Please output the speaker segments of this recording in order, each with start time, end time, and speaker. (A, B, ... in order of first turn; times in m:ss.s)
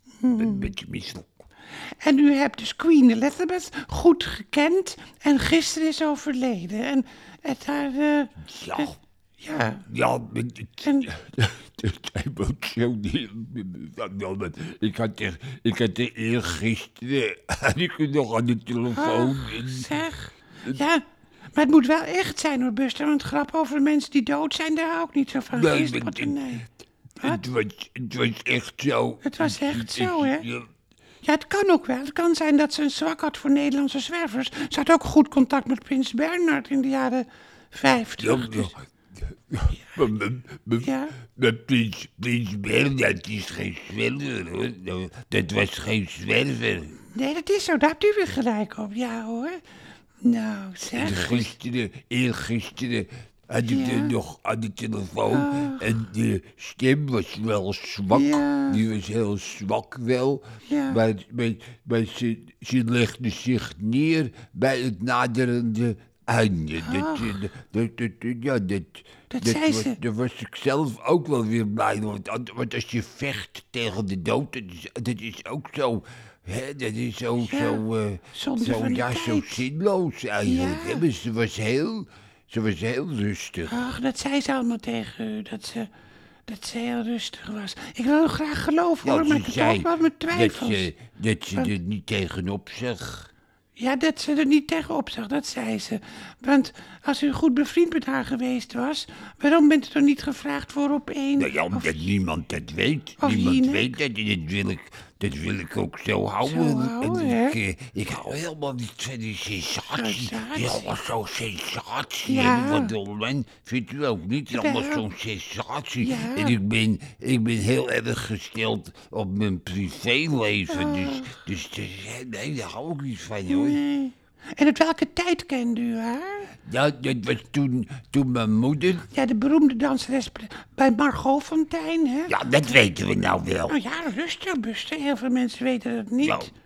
0:00.2-0:00.7 A
0:00.3-0:01.4 B
0:02.0-0:09.8 A
0:08.4-0:09.0 B
0:09.8-0:20.0 B
0:10.8-0:11.1 A
0:18.9-0:21.0 A
0:21.6-0:26.7 A
0:25.5-0:26.6 B
0:27.2-0:30.7 B
0:29.2-0:30.4 A
0:31.2-0:38.7 A
0:38.2-0:47.1 B
0:40.8-0:41.2 A
0:47.1-0:49.6 A
0:50.2-0:51.5 A
0:51.0-1:23.8 B
0:53.6-0:54.2 A
0:55.3-0:56.0 A
0:58.1-0:58.8 A
1:00.7-1:01.0 A
1:06.8-1:07.4 A
1:09.3-1:10.0 A
1:17.4-1:19.6 A
1:20.4-1:21.0 A
1:23.7-1:25.9 A
1:26.5-1:30.9 A
1:29.0-1:33.3 B
1:33.8-1:42.0 A
1:41.4-2:03.8 B
1:43.2-1:44.0 A
1:46.4-1:47.6 A
1:49.9-1:50.9 A
1:52.2-1:52.9 A
1:54.5-1:55.1 A
1:56.0-1:56.6 A
2:00.7-2:01.4 A
2:03.5-2:06.5 A
2:06.5-2:09.1 B
2:09.1-2:12.4 A
2:12.3-2:13.8 B
2:13.7-2:16.5 A
2:16.2-2:16.5 B